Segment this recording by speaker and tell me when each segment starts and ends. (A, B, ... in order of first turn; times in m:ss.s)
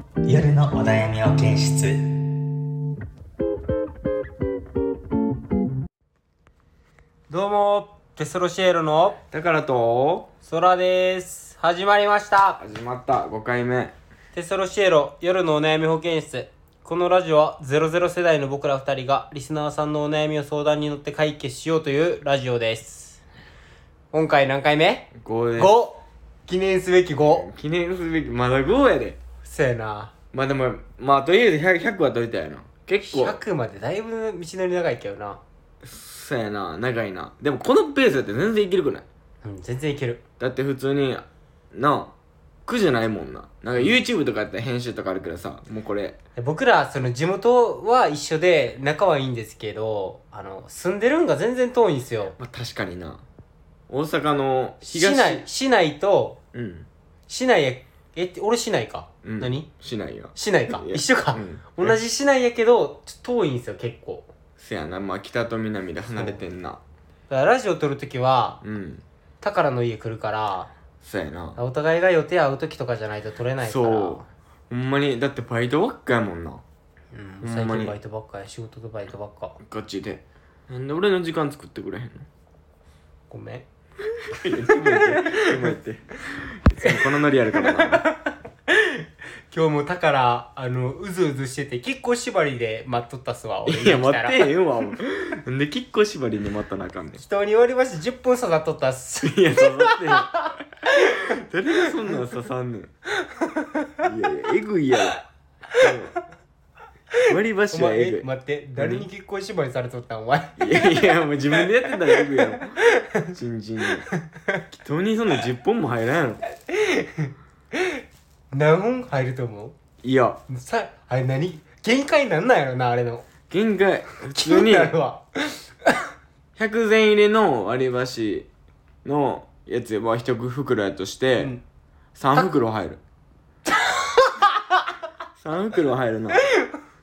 0:00.2-0:02.2 A
0:07.3-0:09.2 B
0:09.3-0:10.3 C
0:10.4-0:12.6 B
0:12.6-0:13.9 C
0:14.3-0:23.2 B
0:24.1-0:27.5 B
0:25.1-0:25.7 C
0:27.2-0:29.2 C
0:29.4-0:30.1 B
0:30.3-0:33.4 C
0:33.0-0:35.4 B
0:35.8-0:39.0 C
0:39.4-0:40.2 B
0:40.4-0:42.1 C
0:42.6-0:46.2 C
0:46.4-0:52.4 B
0:52.4-0:53.2 C
0:53.9-0:55.4 C
0:54.8-0:56.4 B
0:56.5-0:56.9 C
0:57.3-0:59.7 B
0:59.2-1:02.0 C
1:00.3-1:04.3 B
1:04.6-1:06.8 C
1:07.3-1:08.6 B
1:08.6-1:09.0 C
1:09.4-1:10.7 B
1:11.0-1:11.6 C
1:11.6-1:14.3 B
1:13.6-1:16.6 C
1:17.1-1:19.6 B
1:17.4-1:17.9 C
1:19.6-1:22.3 C
1:23.3-1:23.6 B
1:24.2-1:28.0 C
1:24.7-1:25.7 B
1:27.6-1:34.5 B
1:33.6-1:37.2 C
1:37.2-1:41.3 B
1:39.2-1:42.9 C
1:43.4-1:43.9 B
1:44.0-1:45.2 C
1:45.7-1:46.1 C
1:47.2-1:53.3 B
1:47.2-1:49.1 C
1:50.6-1:52.8 C
1:53.3-1:54.1 C
1:54.4-1:54.6 B
1:54.7-1:56.4 C
1:56.7-1:59.8 B
2:00.0-2:00.4 C
2:00.5-2:03.3 B
2:03.5-2:05.0 C
2:04.3-2:06.0 B
2:06.6-2:08.5 C
2:09.0-2:11.5 C
2:12.2-2:13.0 C
2:13.9-2:14.7 B
2:15.4-2:16.4 C